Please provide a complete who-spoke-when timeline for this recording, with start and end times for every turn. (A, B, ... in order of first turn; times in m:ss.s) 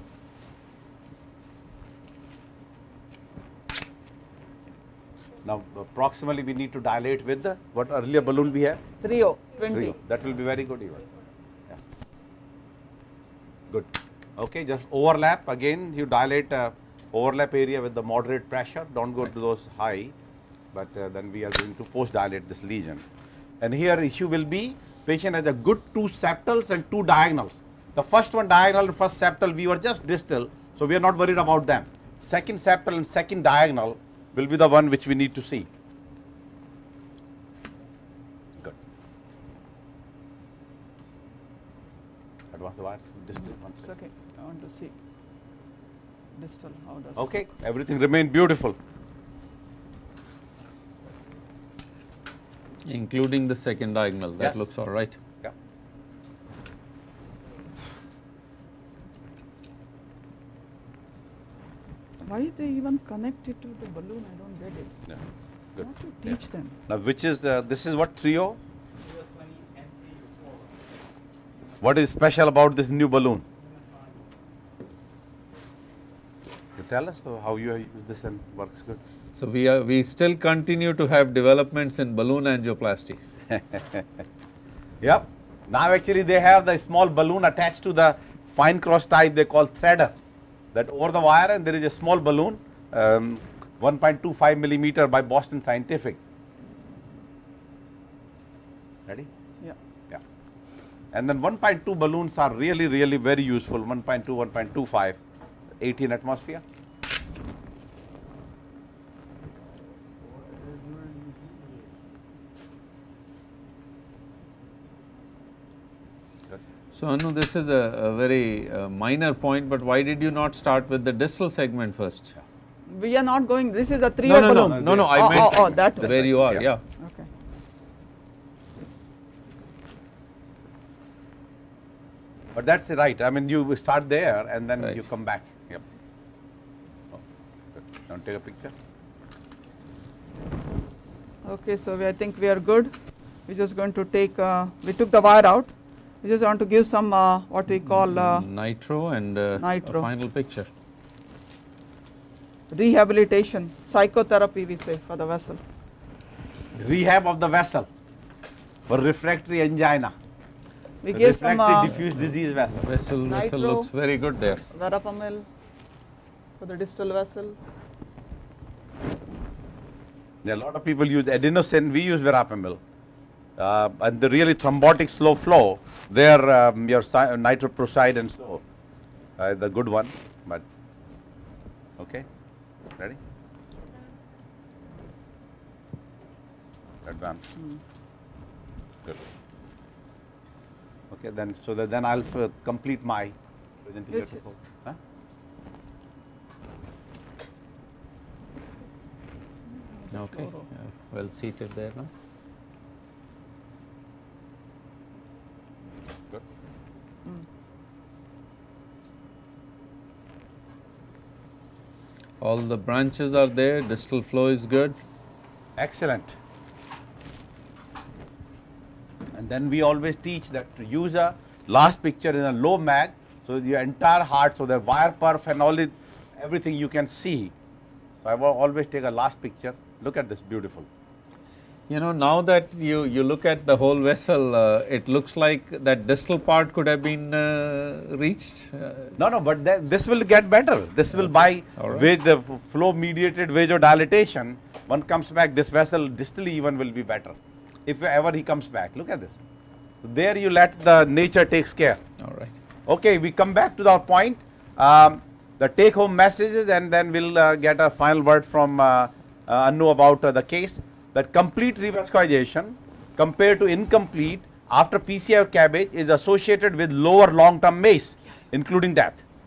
0:05.4-0:08.8 A
0:09.0-0:10.0 B
0:09.7-0:11.0 A
0:13.7-0:20.1 A
0:20.7-0:23.0 A
0:23.6-0:35.7 A
0:42.5-0:43.9 A
0:43.8-0:44.9 B
0:46.4-0:47.3 B
0:47.2-0:48.8 A
0:52.9-0:55.2 C
0:54.4-0:54.7 A
1:02.2-1:04.9 B
1:05.8-1:06.4 A
1:05.8-1:06.8 B
1:06.9-1:08.6 A
1:11.8-1:13.4 A
1:16.8-1:19.0 A
1:19.4-1:23.2 C
1:23.5-1:24.2 A
1:25.0-1:30.2 A
1:30.7-1:36.2 A
1:41.1-1:45.2 A
1:45.8-1:46.6 A
1:56.9-2:02.4 C
2:02.9-2:06.3 B
2:04.3-2:06.8 C
2:04.5-2:06.6 A
2:07.0-2:07.3 B
2:12.5-2:15.8 A
2:17.7-2:18.7 A
2:21.4-2:22.9 B
2:23.5-2:28.5 B
2:27.9-2:30.7 C
2:29.6-2:30.1 B
2:32.7-2:35.6 B
2:36.8-2:37.9 A
2:38.9-2:40.1 A
2:41.0-2:41.9 B
2:41.1-2:42.8 A
2:41.9-2:44.6 C
2:43.3-2:43.9 B
2:44.7-2:45.5 B
2:46.6-2:47.7 B
2:50.4-2:52.8 A
2:53.6-2:58.6 A
2:59.4-3:00.6 A
3:02.0-3:02.3 A
3:07.0-3:07.4 A
3:11.1-3:15.0 A
3:14.1-3:14.4 B
3:19.7-3:20.7 B
3:20.1-3:22.1 C
3:32.4-3:35.0 C
3:35.8-3:36.3 A
3:39.3-3:47.5 A
3:48.2-3:50.9 A
3:51.9-3:59.2 C
3:59.2-4:09.4 A
4:01.8-4:02.1 C
4:10.0-4:12.0 A
4:12.2-4:12.5 C
4:12.9-4:29.2 A